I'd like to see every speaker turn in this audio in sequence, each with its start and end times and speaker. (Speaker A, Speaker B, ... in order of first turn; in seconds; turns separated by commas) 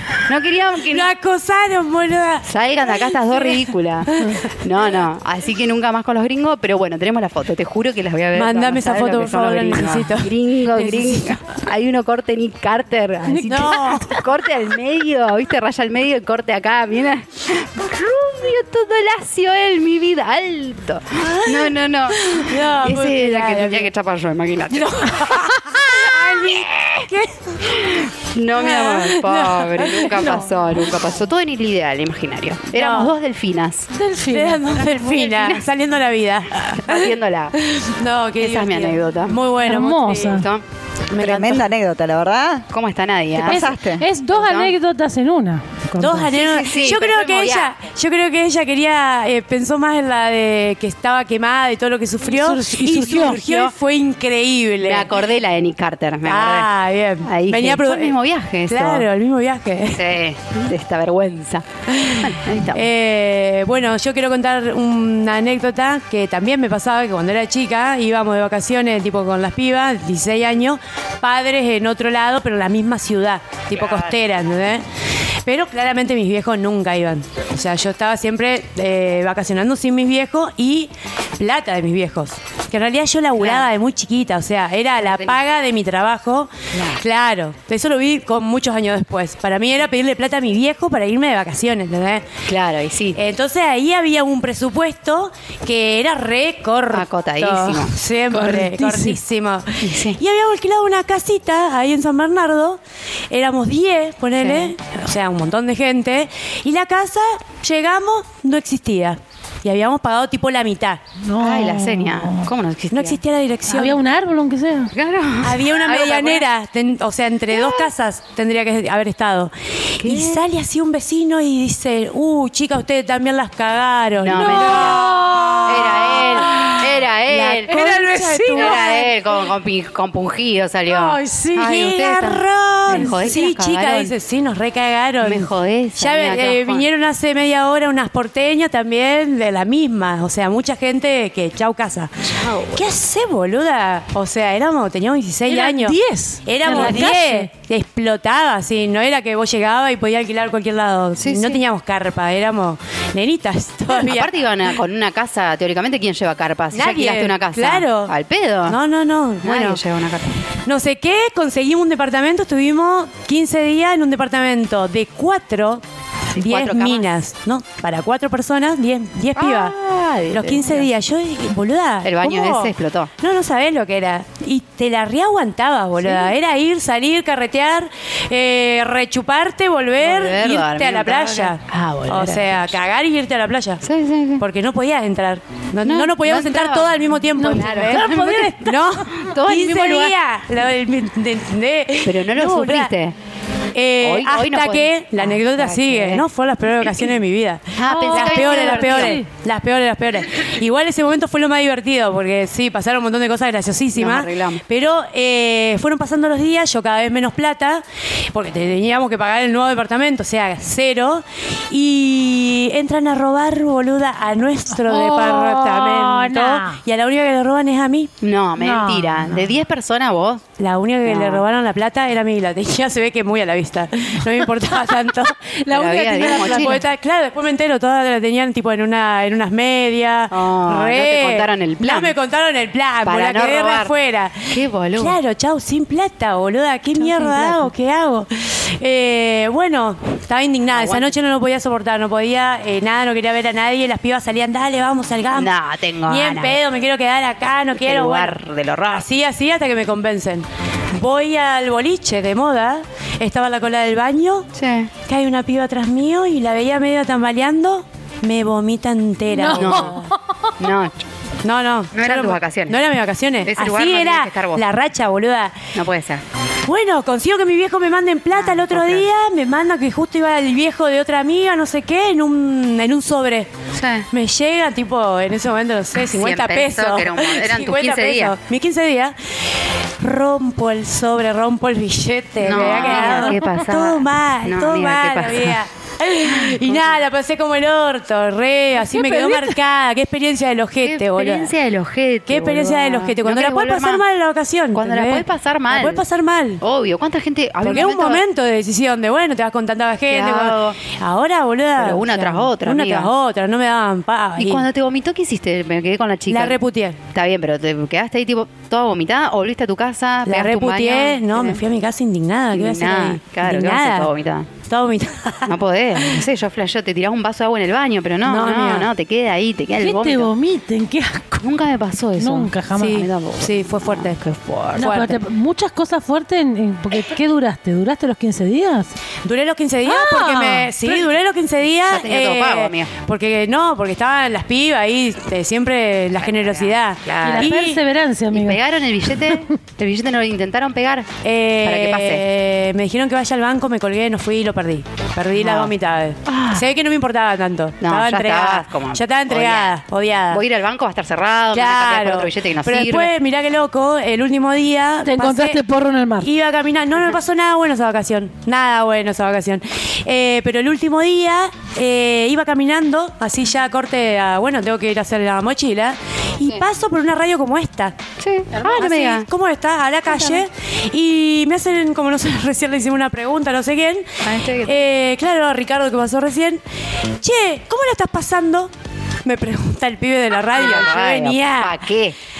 Speaker A: 0.2-1.1, Speaker B: 0.9-4.3, Speaker A: 2.4-27.1, Speaker B: 8.3-11.3, Speaker C: 13.3-14.2, Speaker B: 13.5-14.1, Speaker B: 21.2-23.9, Speaker B: 24.7-27.9, Speaker A: 27.6-33.9, Speaker B: 28.6-30.4, Speaker B: 32.7-33.1, Speaker C: 33.9-35.3, Speaker B: 34.3-40.4, Speaker A: 35.1-35.6, Speaker A: 36.6-37.6, Speaker A: 38.4-39.4, Speaker C: 39.6-40.5, Speaker A: 40.2-40.6, Speaker B: 41.1-41.6, Speaker D: 41.2-42.7, Speaker A: 42.7-43.7, Speaker D: 43.4-44.0, Speaker C: 43.4-46.3, Speaker A: 44.3-44.7, Speaker B: 46.0-55.1, Speaker A: 46.3-47.7, Speaker C: 52.2-53.4, Speaker A: 53.0-53.7, Speaker A: 54.8-56.7, Speaker B: 56.2-60.0, Speaker A: 57.2-59.1, Speaker A: 59.9-62.8, Speaker B: 61.9-74.8, Speaker A: 73.8-74.0, Speaker B: 75.4-92.2, Speaker A: 83.4-83.7, Speaker A: 85.0-85.4, Speaker A: 86.7-87.0, Speaker A: 92.5-93.2, Speaker B: 93.2-102.8, Speaker A: 96.9-97.9, Speaker C: 98.3-99.2, Speaker A: 99.8-100.2, Speaker B: 103.3-111.0, Speaker A: 104.4-104.7, Speaker C: 111.2-112.5, Speaker A: 111.4-113.2, Speaker B: 112.9-114.0, Speaker C: 113.7-114.9, Speaker A: 114.9-116.4, Speaker B: 115.4-125.1, Speaker A: 120.0-120.4, Speaker A: 124.2-125.1, Speaker C: 124.3-127.0, Speaker A: 125.6-127.9, Speaker B: 127.3-129.1, Speaker C: 127.7-129.1, Speaker A: 128.5-134.1, Speaker C: 130.9-131.6, Speaker B: 131.6-142.1, Speaker C: 132.9-133.3, Speaker A: 135.2-136.8, Speaker A: 142.3-142.9, Speaker B: 142.7-154.3, Speaker C: 145.5-147.5, Speaker A: 146.7-146.9, Speaker A: 151.2-151.6, Speaker A: 153.9-158.8, Speaker B: 156.7-158.1, Speaker B: 158.7-159.8, Speaker A: 159.4-160.4, Speaker B: 160.7-165.8, Speaker A: 166.3-167.1, Speaker B: 166.3-169.8, Speaker A: 169.3-170.9, Speaker B: 170.3-183.8, Speaker A: 172.0-173.1, Speaker A: 176.0-176.3, Speaker A: 180.0-182.8, Speaker A: 183.8-184.4, Speaker B: 184.4-192.9, Speaker A: 185.8-190.1, Speaker C: 187.3-188.8, Speaker A: 192.0-193.1, Speaker B: 193.7-218.1, Speaker A: 194.0-196.2, Speaker A: 197.8-199.2, Speaker C: 197.8-199.2, Speaker A: 203.9-204.6, Speaker C: 214.8-216.8, Speaker A: 218.2-220.4, Speaker C: 218.6-219.5, Speaker B: 220.6-248.3, Speaker A: 221.0-221.4, Speaker A: 225.7-226.8, Speaker C: 225.7-226.8, Speaker A: 230.3-232.1, Speaker A: 233.0-233.9, Speaker A: 234.5-235.2, Speaker A: 237.0-237.7, Speaker A: 240.7-241.1, Speaker A: 245.3-246.6, Speaker A: 247.8-249.1, Speaker B: 248.9-254.5, Speaker A: 254.5-254.9, Speaker B: 255.1-260.0, Speaker C: 259.3-260.5, Speaker A: 259.5-260.0, Speaker A: 260.6-261.0, Speaker B: 261.4-265.5, Speaker A: 261.9-262.8, Speaker A: 263.4-264.6, Speaker A: 265.7-266.2, Speaker B: 266.6-273.5, Speaker A: 268.3-269.1, Speaker A: 273.7-274.1, Speaker B: 274.1-279.1, Speaker A: 276.0-278.3, Speaker B: 280.0-291.5, Speaker A: 282.4-285.6, Speaker C: 282.9-283.4, Speaker A: 286.2-287.0, Speaker C: 288.8-289.5, Speaker A: 290.8-294.0, Speaker B: 292.3-296.6, Speaker A: 294.7-296.0, Speaker A: 296.6-298.2, Speaker B: 297.6-304.6, Speaker A: 300.1-300.8, Speaker A: 301.8-303.1, Speaker A: 304.4-306.6, Speaker B: 306.3-307.0, Speaker A: 307.1-311.6, Speaker B: 310.2-314.1, Speaker A: 312.5-314.5, Speaker B: 314.7-316.2, Speaker A: 315.4-320.3, Speaker B: 318.2-318.9, Speaker C: 319.8-321.4, Speaker A: 321.4-325.1, Speaker C: 322.2-323.1, Speaker B: 322.8-324.2, Speaker C: 324.8-328.9, Speaker B: 324.8-325.1, Speaker B: 329.2-337.8, Speaker C: 329.9-330.8, Speaker A: 331.9-332.9, Speaker A: 336.2-337.6, Speaker C: 337.2-338.6, Speaker A: 338.3-341.1, Speaker B: 341.2-350.4, Speaker A: 341.6-342.2, Speaker A: 345.4-345.7, Speaker A: 346.2-346.6, Speaker A: 347.8-349.7, Speaker A: 350.3-353.1, Speaker B: 351.5-355.6, Speaker C: 355.0-356.3, Speaker B: 356.2-367.9, Speaker A: 368.2-369.3, Speaker B: 368.6-376.6, Speaker A: 374.2-374.7, Speaker B: 377.2-378.7, Speaker B: 379.2-381.8, Speaker A: 380.5-382.1